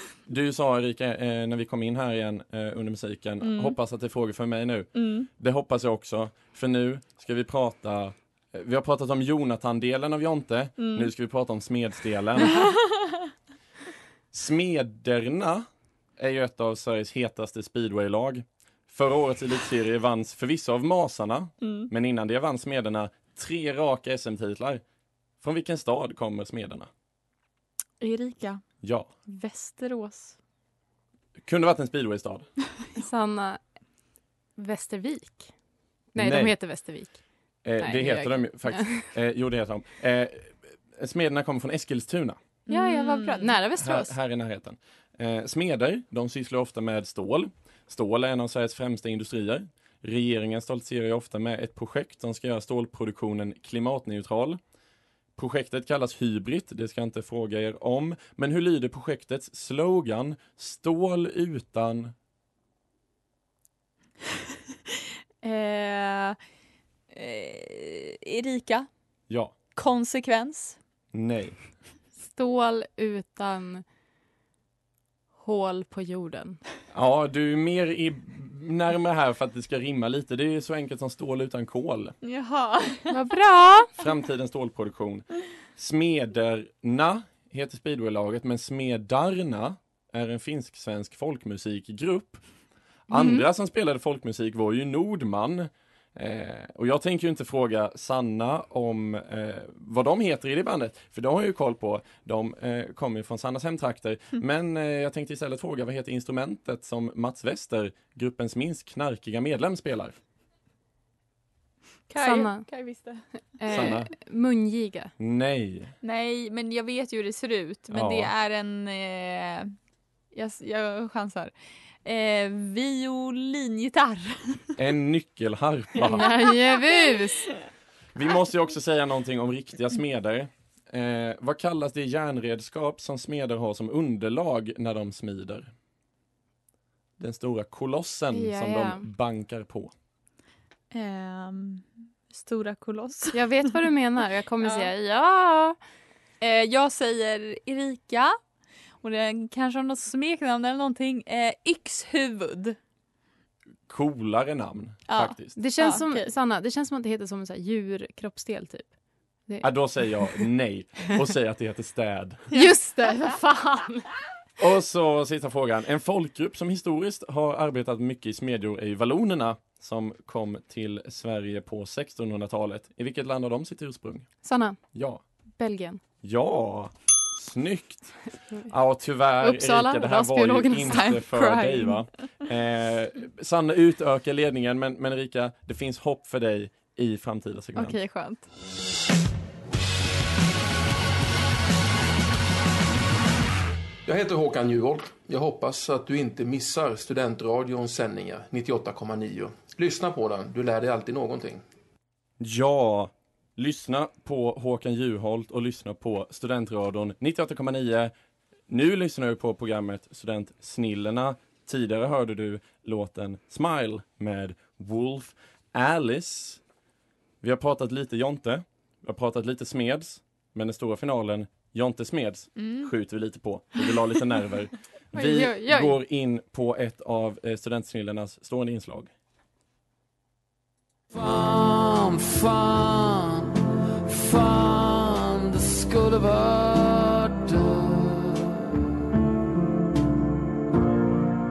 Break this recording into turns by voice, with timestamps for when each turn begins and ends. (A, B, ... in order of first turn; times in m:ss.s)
0:00.3-0:12.6 A
0:03.4-0:03.8 B
0:04.9-0:05.3 B
0:10.8-0:11.1 B
0:12.4-0:12.9 B
0:14.3-0:15.6 A
0:16.2-0:24.8 A
0:21.6-0:21.9 B
0:25.4-0:26.9 A
0:28.0-0:28.6 B
0:28.8-0:29.1 A
0:29.3-0:30.4 B
0:31.4-0:32.5 A
0:33.0-0:33.6 C
0:34.6-0:35.5 C
0:36.1-0:37.2 C
0:36.2-0:36.5 A
0:37.6-0:42.4 A
0:37.8-0:39.0 C
0:42.7-0:43.6 B
0:42.7-0:44.1 C
0:43.8-0:54.6 A
0:55.4-1:02.1 A
1:05.4-1:06.4 B
1:07.1-1:08.9 B
1:09.3-1:09.5 A
1:09.8-1:10.8 B
1:11.1-1:11.6 A
1:12.2-1:13.8 C
1:15.4-1:16.6 C
1:16.9-1:22.1 A
1:22.2-1:23.2 B
1:23.1-1:23.9 C
1:24.0-1:25.2 A
1:25.8-1:32.4 A
1:33.1-1:50.2 A
1:33.1-1:33.4 C
1:52.1-1:53.2 B
1:52.2-1:52.6 C
1:53.6-1:55.1 C
1:53.7-1:54.1 A
1:55.2-1:55.9 A
1:56.0-1:59.7 B
1:57.9-1:58.3 A
2:00.3-2:01.5 B
2:02.0-2:04.6 B
2:04.8-2:06.3 A
2:06.0-2:07.5 C
2:06.2-2:07.2 B
2:08.2-2:15.7 A
2:17.2-2:19.9 A
2:18.3-2:19.0 C
2:20.9-2:23.4 B
2:23.3-2:25.8 C
2:24.6-2:24.9 B
2:26.4-2:28.4 B
2:29.0-2:32.8 B
2:33.9-2:35.6 A
2:35.1-2:36.3 B
2:35.6-2:38.9 C
2:39.6-2:42.4 A
2:42.5-2:44.1 C
2:44.6-2:54.3 A
2:54.4-2:54.8 C
2:54.9-2:55.2 A
2:55.6-2:56.0 C
2:56.2-2:58.1 A
2:58.7-3:08.0 A
2:59.4-3:01.2 C
3:00.9-3:02.0 B
3:07.8-3:08.4 B
3:14.0-3:21.6 D
3:22.4-3:28.1 A
3:28.7-3:36.6 A
3:37.4-3:49.1 A
3:42.6-3:42.9 B
3:45.1-3:46.0 C
3:51.1-3:58.4 E